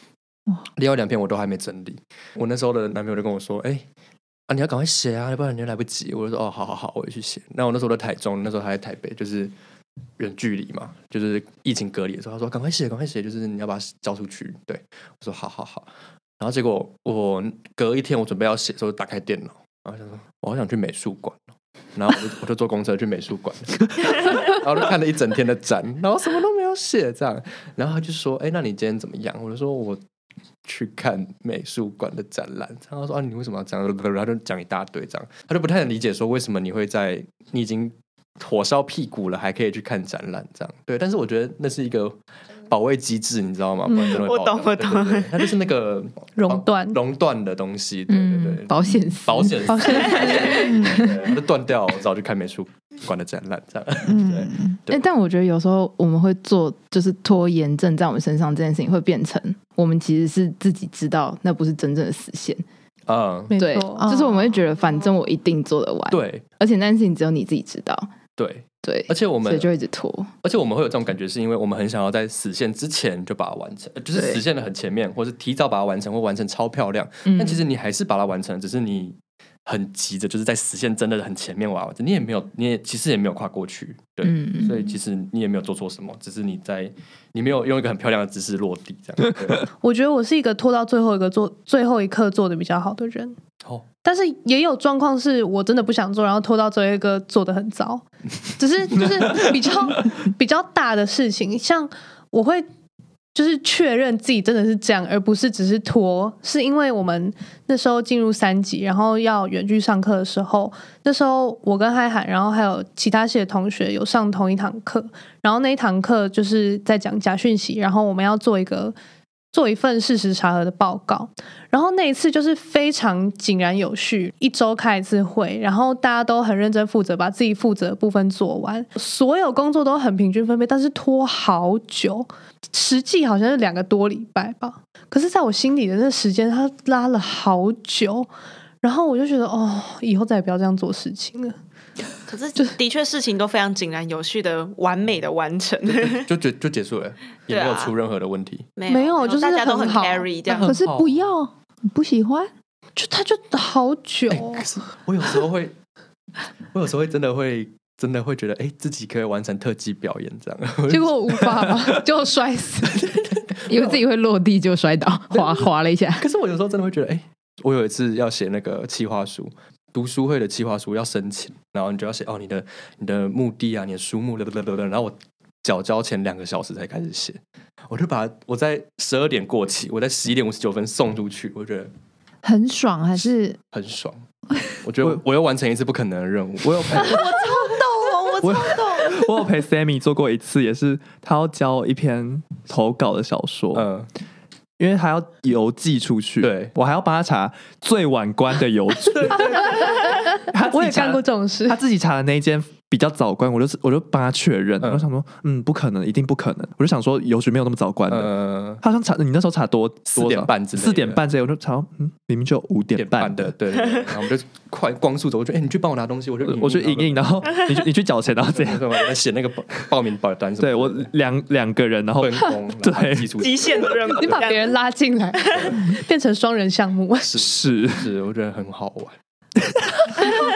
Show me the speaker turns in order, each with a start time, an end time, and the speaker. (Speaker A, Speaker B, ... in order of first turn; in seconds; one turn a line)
Speaker A: 0.8-3.9
Speaker A: 4.5-9.5
Speaker A: 10.2-21.4
Speaker A: 21.9-30.0
Speaker A: 30.6-42.2
Speaker A: 42.7-55.0
Speaker B: 43.9-45.5
Speaker C: 46.4-47.0
Speaker D: 48.1-49.7
Speaker C: 49.7-50.9
Speaker B: 49.9-50.6
Speaker E: 50.7-51.0
Speaker E: 54.0-54.8
Speaker D: 54.9-62.6
Speaker A: 63.1-63.5
Speaker C: 63.5-64.0
Speaker D: 63.5-68.1
Speaker E: 64.0-64.6
Speaker A: 66.1-66.4
Speaker A: 68.4-69.7
Speaker D: 68.8-70.3
Speaker A: 70.4-89.7
Speaker D: 74.1-74.4
Speaker D: 77.2-77.6
Speaker D: 84.2-84.7
Speaker C: 89.8-93.4
Speaker C: 94.0-102.7
Speaker C: 103.3-118.9
Speaker C: 119.5-138.3
Speaker C: 138.8-141.6
Speaker B: 142.3-146.3
Speaker A: 145.8-148.7
Speaker B: 147.5-147.9
Speaker B: 148.8-150.7
Speaker C: 148.9-150.3
Speaker A: 150.6-151.3
Speaker E: 150.6-152.5
Speaker C: 153.0-154.7
Speaker A: 154.3-155.7
Speaker A: 156.7-161.8
Speaker C: 160.9-163.2
Speaker D: 163.7-166.2
Speaker A: 165.3-181.9
Speaker E: 182.4-183.6
Speaker A: 183.2-187.2
Speaker F: 186.6-187.3
Speaker B: 187.0-189.2
Speaker F: 188.4-193.9
Speaker A: 193.7-194.1
Speaker F: 194.8-213.5
Speaker A: 196.4-196.7
Speaker A: 199.1-200.2
Speaker C: 199.6-201.8
Speaker A: 204.8-205.1
Speaker A: 208.1-208.8
Speaker A: 210.1-211.2
Speaker A: 212.9-217.5
Speaker F: 216.4-219.0
Speaker A: 218.5-221.1
Speaker F: 220.6-223.3
Speaker A: 222.2-224.2
Speaker B: 223.4-224.7
Speaker C: 224.1-227.3
Speaker A: 227.3-229.1
Speaker F: 227.4-228.1